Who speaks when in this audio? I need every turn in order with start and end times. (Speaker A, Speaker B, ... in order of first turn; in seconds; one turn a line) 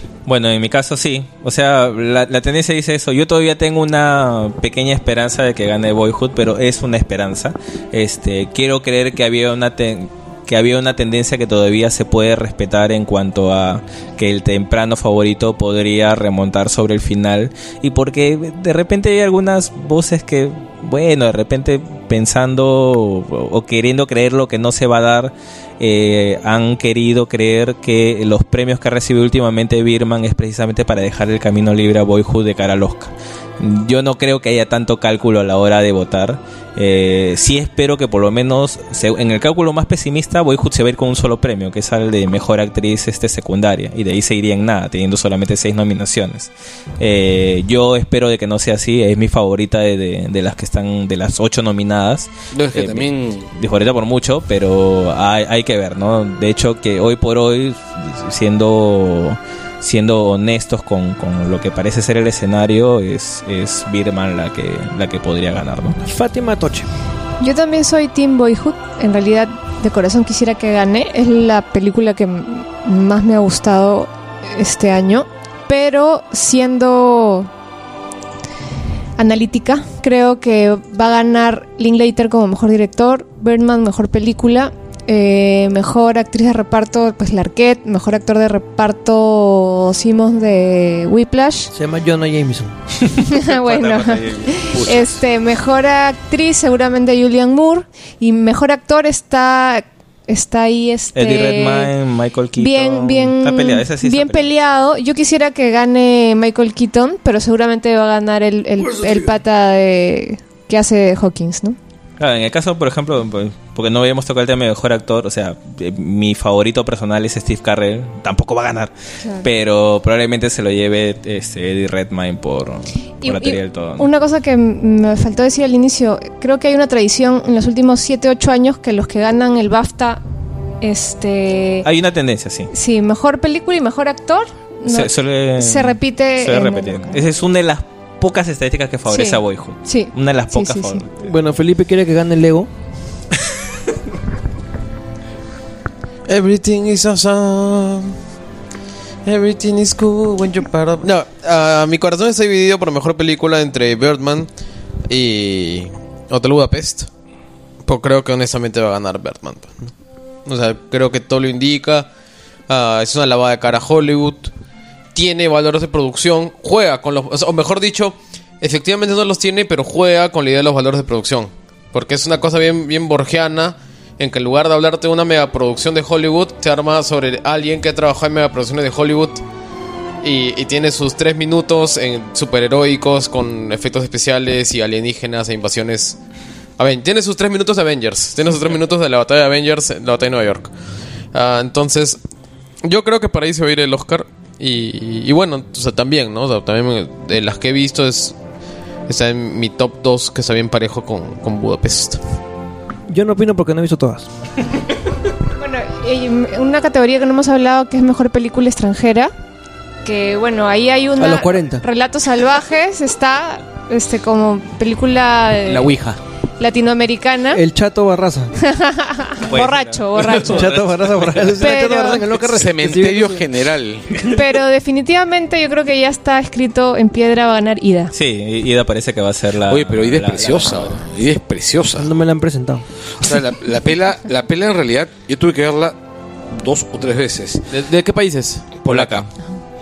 Speaker A: 0.3-66.0
Speaker B: 52.5-53.5
Speaker C: 66.0-66.9
Speaker D: 67.4-77.5
Speaker D: 79.2-91.7
Speaker C: 91.7-92.7
Speaker A: 93.0-95.1
Speaker D: 93.3-101.9
Speaker A: 101.1-104.5
Speaker D: 102.6-111.8
Speaker B: 109.0-109.2
Speaker A: 112.2-118.9
Speaker A: 119.4-124.1
Speaker D: 123.2-130.2
Speaker D: 130.8-131.8
Speaker A: 131.8-132.7
Speaker D: 132.7-137.2
Speaker A: 134.9-141.1
Speaker D: 139.1-141.0
Speaker C: 141.2-142.7
Speaker E: 146.3-148.2
Speaker E: 149.2-154.5
Speaker E: 155.1-157.1
Speaker E: 157.8-159.8
Speaker E: 160.4-162.1
Speaker E: 162.7-164.5
Speaker E: 165.1-179.4
Speaker E: 180.2-186.2
Speaker E: 186.8-190.7
Speaker E: 191.3-192.2
Speaker E: 192.8-198.3
Speaker E: 199.1-202.2
Speaker C: 203.1-204.3
Speaker D: 205.6-209.3
Speaker D: 210.1-215.9
Speaker C: 211.2-211.8
Speaker E: 215.7-216.2
Speaker D: 216.6-217.6
Speaker C: 217.5-218.5
Speaker D: 218.6-220.7
Speaker A: 219.5-222.6
Speaker C: 220.4-223.4
Speaker D: 221.6-222.2
Speaker B: 222.4-224.3
Speaker D: 224.3-228.1
Speaker A: 228.1-231.0
Speaker B: 229.7-232.1
Speaker C: 232.0-232.8
Speaker B: 233.2-235.9
Speaker B: 236.5-237.6
Speaker E: 237.7-239.0
Speaker B: 238.8-239.3
Speaker A: 238.9-239.3